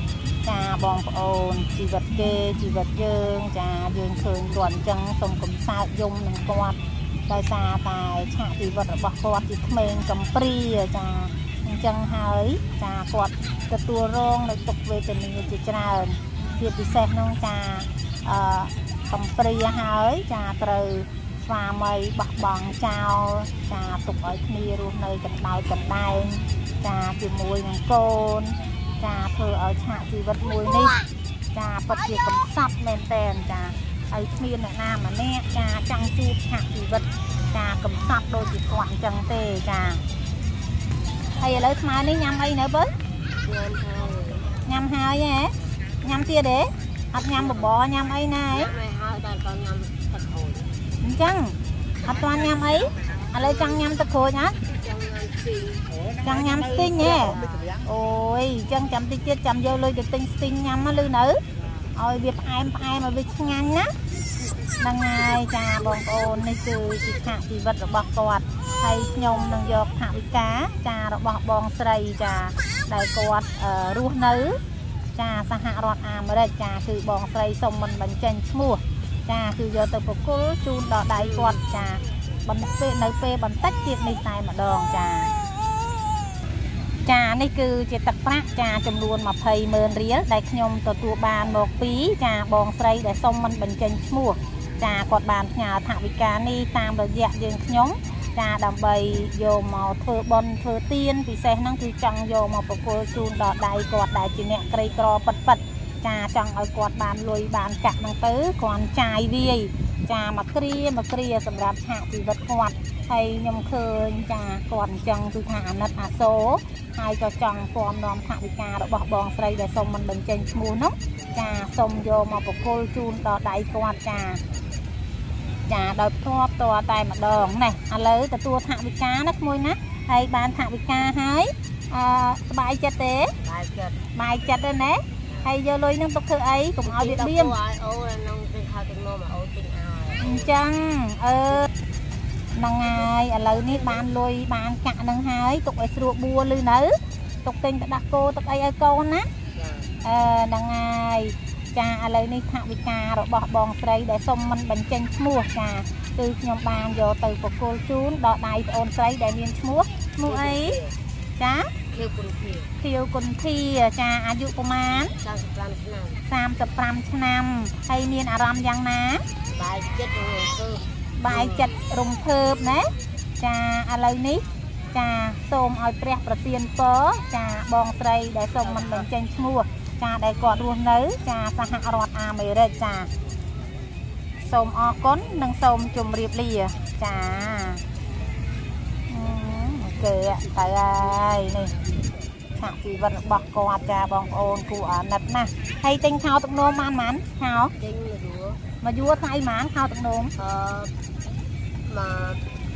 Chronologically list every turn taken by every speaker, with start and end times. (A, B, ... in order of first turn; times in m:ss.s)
0:00.4-0:31.0 A
0:31.5-0:40.0 A
0:41.4-0:42.9 A
0:43.4-0:44.6 B
0:44.6-0:48.7 A
0:47.4-0:47.7 B
0:48.5-0:50.7 B
0:51.0-0:54.6 A
0:53.2-0:53.9 B
0:54.6-0:55.8 B
0:56.2-1:01.4 A
0:56.4-0:57.8 B
1:01.5-1:01.9 B
1:01.9-1:03.9 A
1:04.8-1:14.6 A
1:15.1-1:25.3 A
1:21.1-1:21.7 B
1:27.0-2:04.4 A
2:05.7-2:13.3 A
2:13.4-2:14.0 B
2:14.1-2:17.5 A
2:15.3-2:15.5 B
2:16.8-2:20.6 B
2:20.2-2:21.7 A
2:22.5-2:29.3 A
2:29.5-2:29.9 B
2:30.0-2:40.8 A
2:40.2-2:40.9 B
2:41.4-2:41.7 A
2:41.9-2:42.7 B
2:42.8-2:45.1 A
2:45.2-2:46.2 B
2:46.2-2:49.2 A
2:49.5-2:51.8 B
2:51.2-3:03.1 A
2:58.6-2:59.1 B
3:04.4-3:07.8 A
3:09.1-3:11.7 A
3:12.6-3:17.7 A
3:17.8-3:18.6 B
3:18.8-3:20.3 A
3:20.4-3:20.9 B
3:21.8-3:22.4 B